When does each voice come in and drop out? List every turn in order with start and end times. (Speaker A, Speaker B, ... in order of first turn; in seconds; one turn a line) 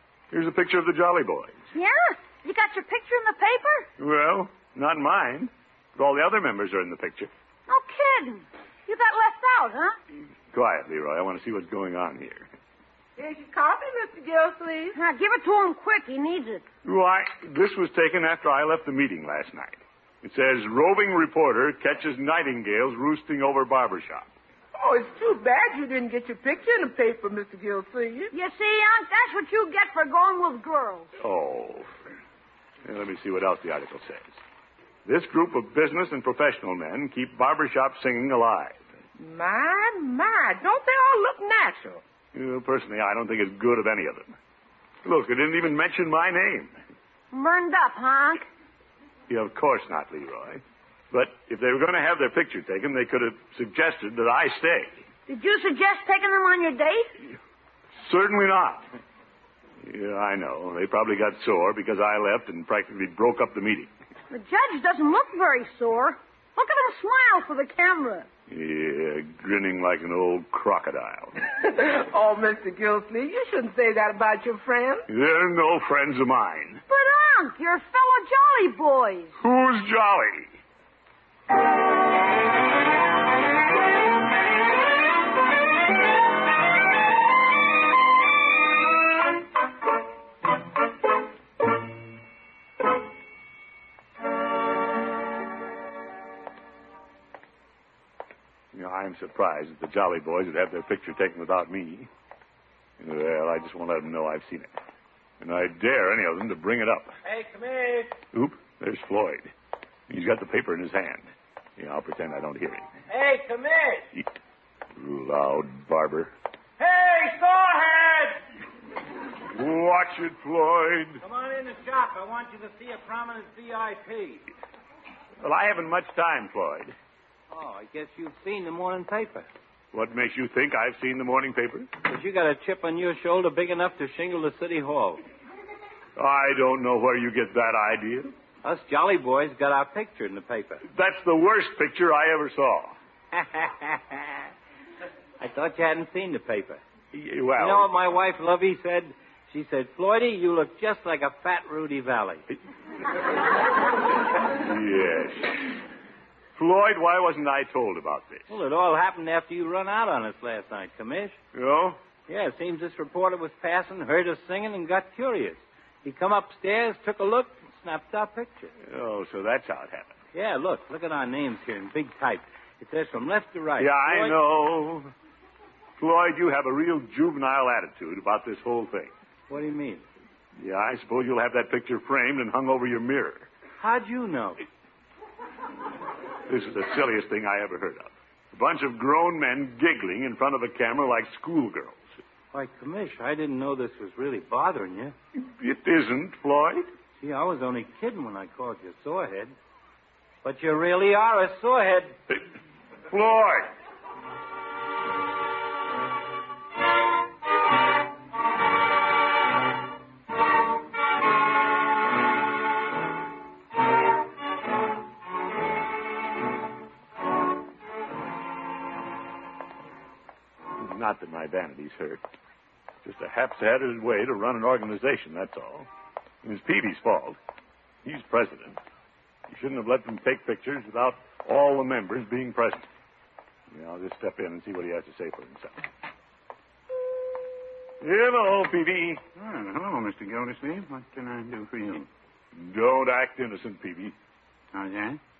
Speaker A: 0.3-1.5
Speaker B: 1.7-3.9
Speaker A: 4.0-7.3
Speaker B: 7.7-9.9
Speaker A: 10.5-12.5
Speaker C: 13.2-14.9
Speaker B: 14.9-16.6
Speaker A: 16.8-24.3
Speaker C: 24.7-28.3
Speaker B: 28.3-31.1
Speaker A: 31.2-32.0
Speaker A: 32.8-34.4
Speaker A: 35.0-38.8
Speaker C: 39.2-42.0
Speaker A: 42.3-44.4
Speaker A: 45.0-46.8
Speaker B: 47.3-48.4
Speaker A: 49.3-55.0
Speaker B: 55.3-57.1
Speaker A: 58.0-58.9
Speaker A: 59.8-63.9
Speaker B: 64.3-68.3
Speaker A: 68.5-71.3
Speaker C: 71.6-75.1
Speaker A: 75.1-76.8
Speaker B: 76.9-79.3
Speaker A: 79.4-80.5
Speaker A: 98.7-102.1
Speaker A: 103.0-104.7
Speaker A: 105.4-107.1
Speaker D: 107.2-108.2
Speaker A: 108.3-109.5
Speaker A: 110.1-112.9
Speaker D: 113.1-114.1
Speaker A: 115.0-116.3
Speaker D: 116.8-118.4
Speaker A: 119.5-121.2
Speaker D: 121.2-124.5
Speaker A: 125.4-126.9
Speaker D: 127.5-129.5
Speaker A: 129.9-131.9
Speaker D: 132.0-135.2
Speaker A: 136.2-138.3
Speaker D: 138.6-140.8
Speaker A: 140.9-142.9
Speaker D: 143.3-144.3
Speaker D: 145.4-146.8
Speaker A: 147.1-147.9
Speaker D: 147.6-152.4
Speaker A: 154.6-155.8
Speaker A: 156.6-158.5
Speaker D: 158.5-161.4
Speaker A: 161.5-162.0
Speaker D: 162.3-168.7
Speaker A: 168.8-170.2
Speaker D: 170.3-174.4
Speaker A: 173.8-175.1
Speaker A: 176.0-179.1
Speaker D: 179.5-180.0
Speaker A: 180.6-183.5
Speaker D: 183.8-184.6
Speaker A: 186.5-192.0
Speaker D: 192.5-195.1
Speaker A: 195.3-196.9
Speaker D: 197.2-199.5
Speaker D: 200.4-202.2
Speaker A: 203.1-203.7
Speaker A: 220.8-222.2
Speaker A: 223.0-225.9
Speaker A: 226.4-227.4
Speaker A: 228.0-228.8
Speaker A: 229.5-232.8
Speaker A: 233.7-235.8
Speaker A: 238.0-239.2
Speaker E: 239.3-242.1
Speaker A: 242.5-244.1
Speaker E: 244.7-245.2